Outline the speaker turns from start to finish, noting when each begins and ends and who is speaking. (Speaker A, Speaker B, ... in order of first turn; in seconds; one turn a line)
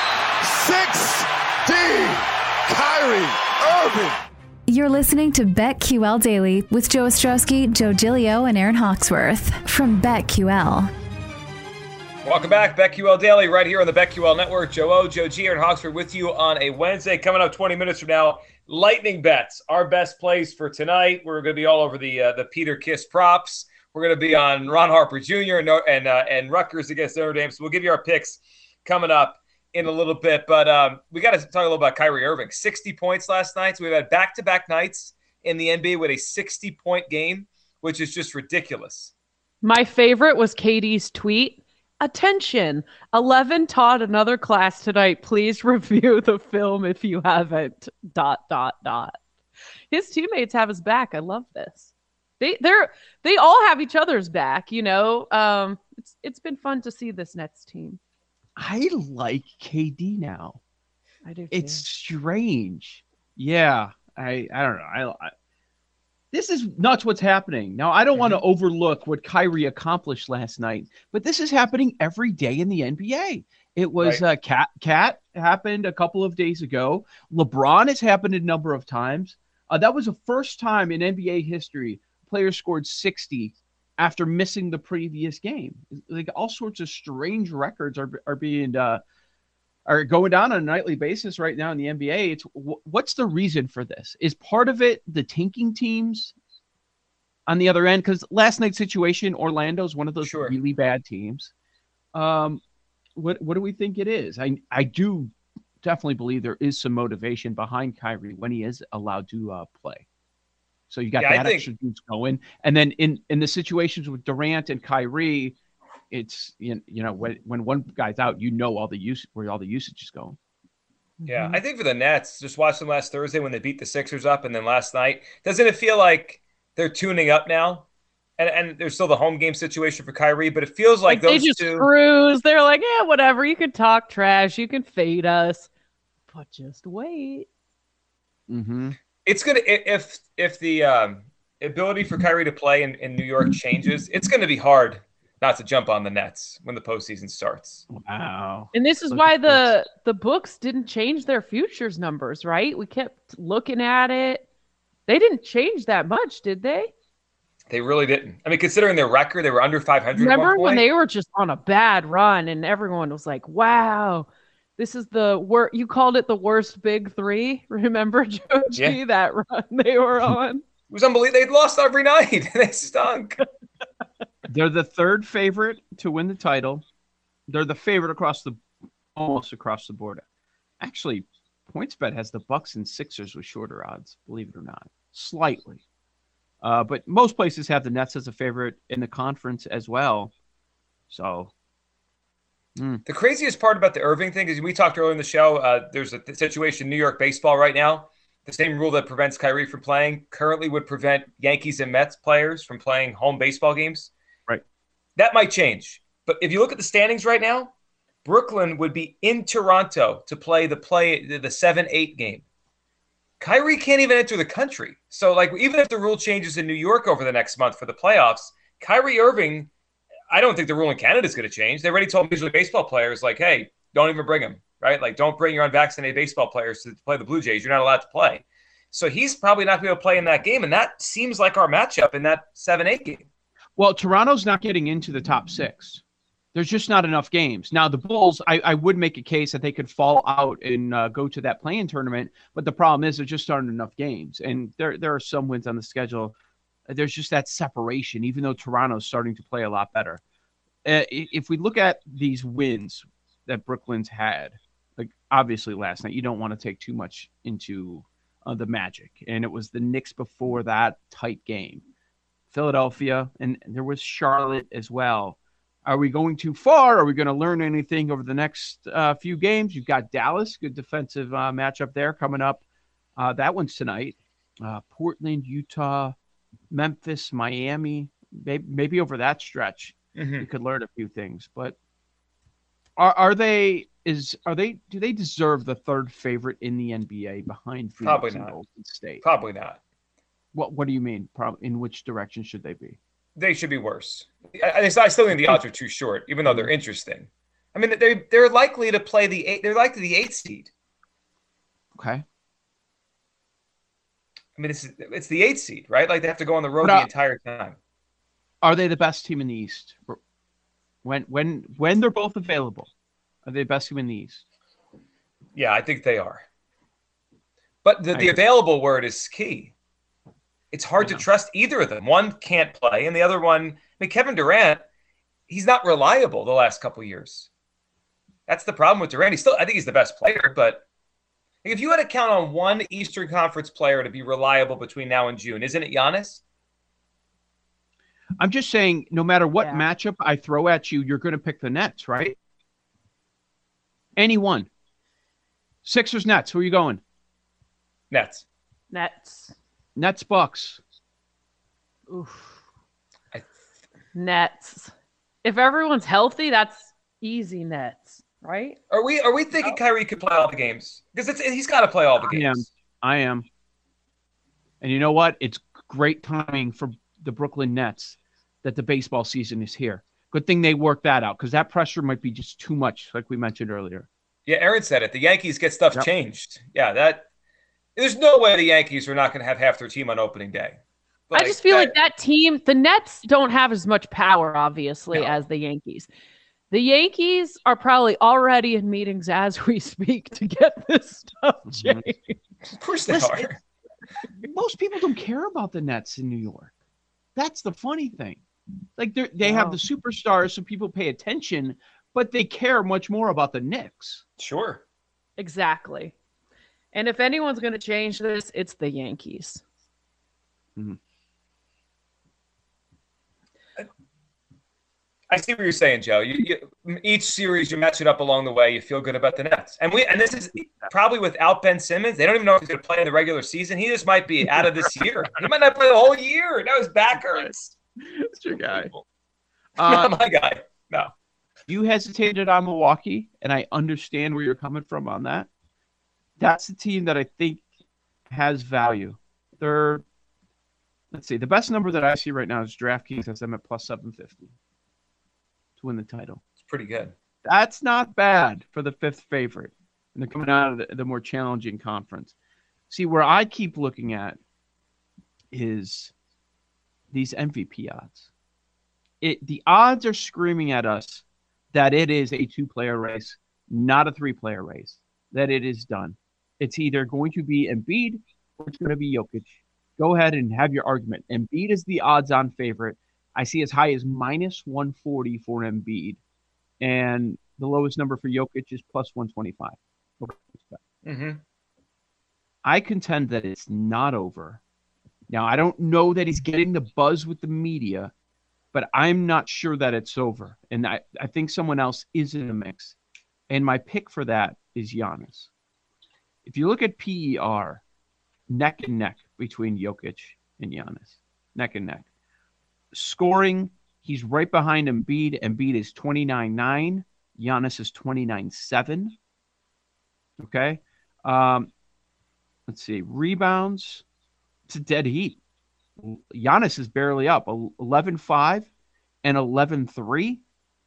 Speaker A: 0.4-4.2
Speaker B: 4.7-10.9
Speaker C: 12.2-39.1
Speaker D: 39.6-49.2
Speaker D: 49.9-58.0
Speaker E: 58.6-60.6
Speaker D: 61.2-61.8
Speaker E: 61.5-65.3
Speaker E: 66.3-89.0
Speaker C: 68.1-68.4
Speaker C: 74.0-74.2
Speaker E: 89.9-96.3
Speaker E: 97.5-101.5
Speaker C: 100.2-100.5
Speaker E: 102.1-102.6
Speaker E: 103.2-110.0
Speaker E: 110.9-115.5
Speaker C: 111.2-111.7
Speaker E: 116.1-120.4
Speaker D: 121.2-121.6
Speaker C: 121.3-127.8
Speaker C: 128.4-131.9
Speaker D: 131.1-135.7
Speaker D: 136.3-137.5
Speaker E: 138.5-139.0
Speaker C: 139.2-147.8
Speaker E: 147.9-149.7
Speaker D: 148.7-154.4
Speaker D: 155.1-156.9
Speaker C: 157.7-160.8
Speaker D: 160.1-170.6
Speaker C: 168.7-169.0
Speaker C: 170.9-173.4
Speaker E: 174.5-176.8
Speaker E: 177.5-178.6
Speaker E: 179.1-180.2
Speaker E: 180.8-185.8
Speaker E: 186.6-190.3
Speaker E: 191.1-191.5
Speaker E: 192.8-193.0
Speaker C: 193.1-204.1
Speaker C: 205.2-207.7
Speaker C: 208.2-212.4
Speaker C: 213.4-219.7
Speaker C: 220.3-233.2
Speaker E: 233.8-236.0
Speaker E: 236.5-246.3
Speaker E: 246.9-250.2
Speaker E: 250.8-261.8
Speaker E: 262.5-272.6
Speaker E: 273.2-276.1
Speaker E: 276.7-281.8
Speaker C: 280.1-280.5
Speaker E: 283.0-289.2
Speaker C: 288.0-288.5
Speaker C: 289.2-289.8
Speaker E: 290.5-293.0
Speaker C: 293.4-300.7
Speaker E: 295.3-295.6
Speaker E: 296.4-296.7
Speaker E: 301.9-302.2
Speaker C: 304.6-307.8
Speaker E: 306.8-307.1
Speaker E: 308.6-310.2
Speaker E: 311.0-312.9
Speaker E: 313.4-314.4
Speaker C: 315.5-316.4
Speaker C: 317.8-319.7
Speaker C: 320.7-324.8
Speaker E: 321.0-321.2
Speaker C: 325.5-327.5
Speaker C: 328.5-330.8
Speaker C: 331.6-336.4
Speaker E: 338.4-342.4
Speaker D: 339.6-339.8
Speaker E: 344.1-344.7
Speaker E: 345.8-347.0
Speaker C: 348.1-348.4
Speaker D: 348.9-349.5
Speaker E: 349.9-350.8
Speaker D: 352.1-352.6
Speaker D: 354.1-354.9
Speaker D: 355.4-358.8
Speaker C: 358.9-362.7
Speaker E: 362.2-363.4
Speaker E: 364.8-374.1
Speaker C: 374.5-377.2
Speaker C: 377.9-380.8
Speaker C: 381.3-381.9
Speaker D: 381.3-386.1
Speaker C: 385.1-385.4
Speaker D: 386.7-392.4
Speaker E: 391.7-392.1
Speaker C: 392.8-393.6
Speaker E: 393.1-393.6
Speaker E: 394.4-396.7
Speaker E: 397.4-398.4
Speaker E: 399.0-404.2
Speaker D: 399.4-399.8
Speaker C: 404.4-404.8
Speaker D: 405.4-406.1
Speaker D: 406.9-409.6
Speaker C: 415.3-427.7
Speaker E: 427.1-428.9
Speaker C: 428.7-429.0
Speaker E: 429.8-430.1
Speaker C: 429.8-431.1
Speaker E: 431.7-435.5
Speaker E: 436.4-437.6
Speaker E: 438.3-440.0
Speaker E: 441.1-444.5
Speaker E: 445.8-446.4
Speaker C: 446.6-447.1
Speaker E: 447.4-452.3
Speaker E: 452.9-454.4
Speaker E: 455.5-456.1
Speaker E: 457.1-458.3
Speaker E: 459.2-476.2
Speaker E: 476.8-480.8
Speaker C: 481.0-481.4
Speaker E: 482.6-484.6
Speaker E: 485.3-488.1
Speaker E: 488.7-492.9
Speaker E: 493.5-495.5
Speaker E: 496.4-497.8
Speaker E: 498.5-502.1
Speaker E: 502.9-509.1
Speaker E: 510.4-511.7
Speaker E: 512.7-514.0
Speaker E: 514.7-515.4
Speaker E: 516.0-518.7
Speaker E: 519.2-520.4